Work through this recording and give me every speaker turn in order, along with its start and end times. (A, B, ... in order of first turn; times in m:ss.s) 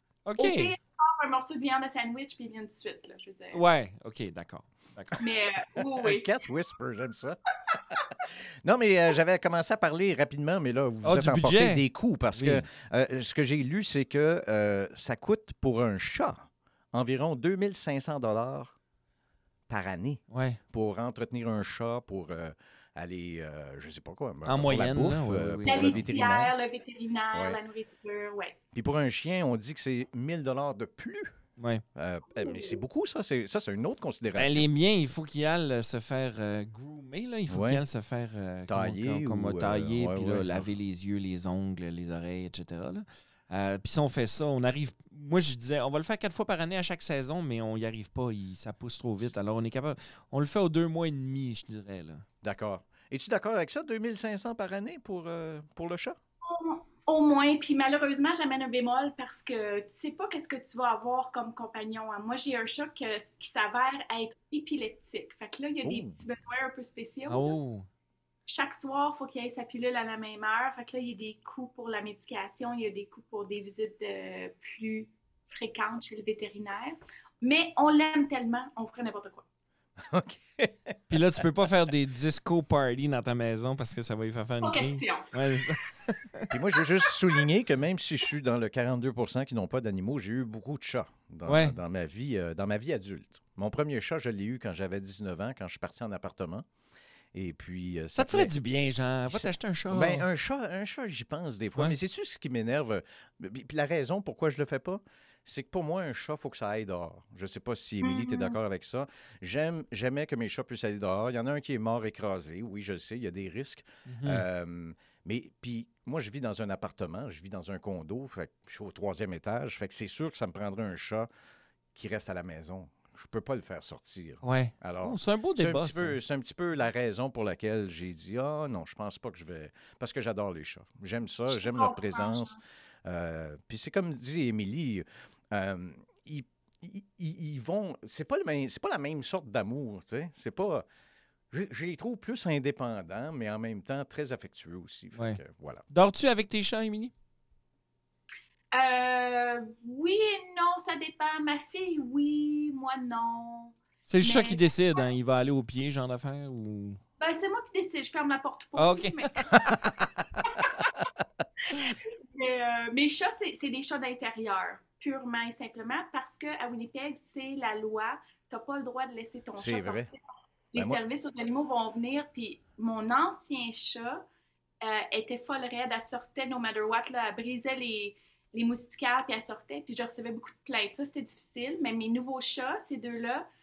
0:00.2-0:00.7 A
0:00.4-0:03.6 B
0:03.5-0:05.2 A
0:05.2-0:06.4 B
0:06.0-0:07.4 C
0:08.2-0:18.7 C
0:11.0-0:12.6 A
0:19.7-0:20.2 C
0:20.3-0:20.6 A
0:20.7-0:26.5 C
0:24.4-0:26.1 A
0:25.6-0:28.6 B
0:27.3-0:27.6 C
0:28.7-0:31.3 C
0:31.6-0:31.8 A
0:31.9-0:34.7 C
0:32.4-0:32.8 B
0:34.3-0:52.2 A
0:37.5-0:37.8 C
0:38.7-0:40.7 C
0:52.4-0:56.2 C
0:56.4-1:07.6 B
1:05.8-1:06.2 C
1:07.2-1:07.9 A
1:08.5-1:19.4 B
1:20.0-1:21.1 C
1:21.1-1:26.5 A
1:24.6-1:25.3 B
1:26.5-1:36.6 C
1:31.4-1:31.8 A
1:37.3-1:38.5 C
1:38.1-1:40.2 A
1:39.3-2:01.3 C
1:48.0-1:48.6 B
1:54.0-1:54.4 A
2:01.9-2:20.8 C
2:04.4-2:06.2 A
2:11.5-2:12.6 B
2:21.5-2:25.8 C
2:25.2-2:27.1 A
2:28.7-2:35.0 B
2:34.1-2:37.0 A
2:37.2-2:39.5 B
2:38.8-2:39.7 A
2:41.7-2:50.2 B
2:49.6-2:50.1 C
2:50.7-2:54.2 B
2:50.7-2:51.0 C
2:54.8-3:03.4 B